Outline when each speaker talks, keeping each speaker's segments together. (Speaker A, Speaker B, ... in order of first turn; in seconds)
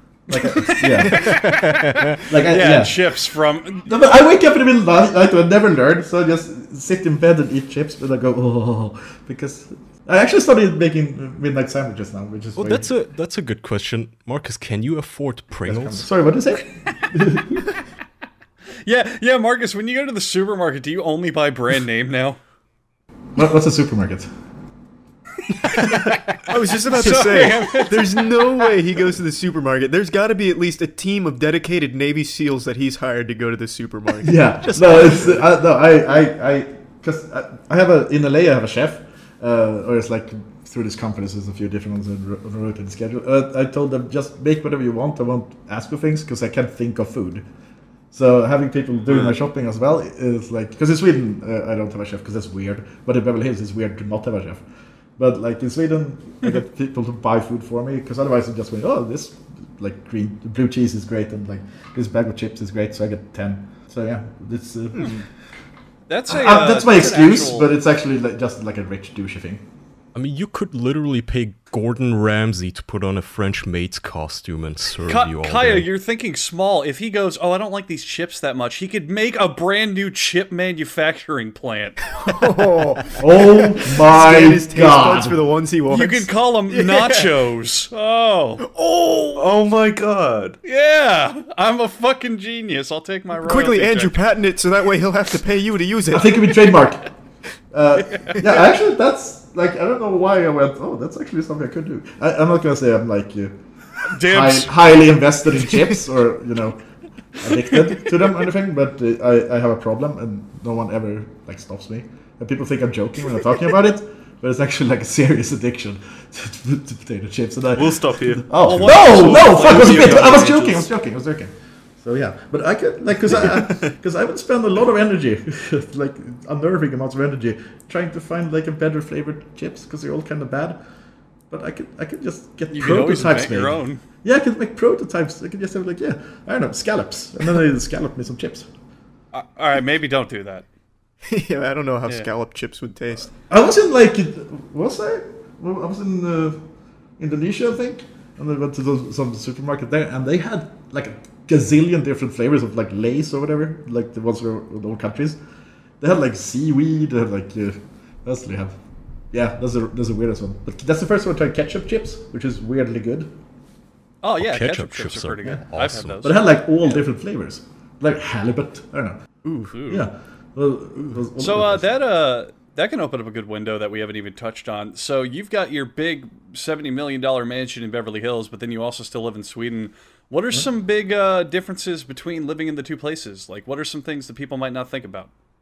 Speaker A: 0.3-1.6, 2.2-3.0, 3.8-12.9, 15.6-17.6, 23.3-24.3, 34.2-47.4, 48.1-54.6, 55.2-65.2, 66.3-69.6, 83.2-85.4, 96.1-97.1, 97.7-103.6, 104.1-106.8, 107.4-130.8, 131.5-138.7, 143.5-146.6, 147.2-155.4, 156.0-158.8, 159.3-163.3, 166.2-169.2, 169.8-171.9
Speaker B: 0.3-1.4, 2.5-3.9, 18.8-22.4, 25.7-28.5, 66.1-67.7, 75.0-82.1, 85.9-88.6, 90.6-94.2, 98.0-98.4, 104.0-104.8, 118.6-120.5, 132.7-134.0, 139.3-140.7, 164.2-166.5, 169.4-170.1, 171.4-185.3
Speaker C: 1.0-1.9, 26.5-35.3, 82.2-87.3, 88.6-89.5, 93.4-96.5, 141.3-143.3
Speaker D: 1.6-2.0, 12.6-16.1, 70.1-75.8, 164.4-166.2
Speaker E: 49.1-49.3, 89.3-90.6, 117.8-120.9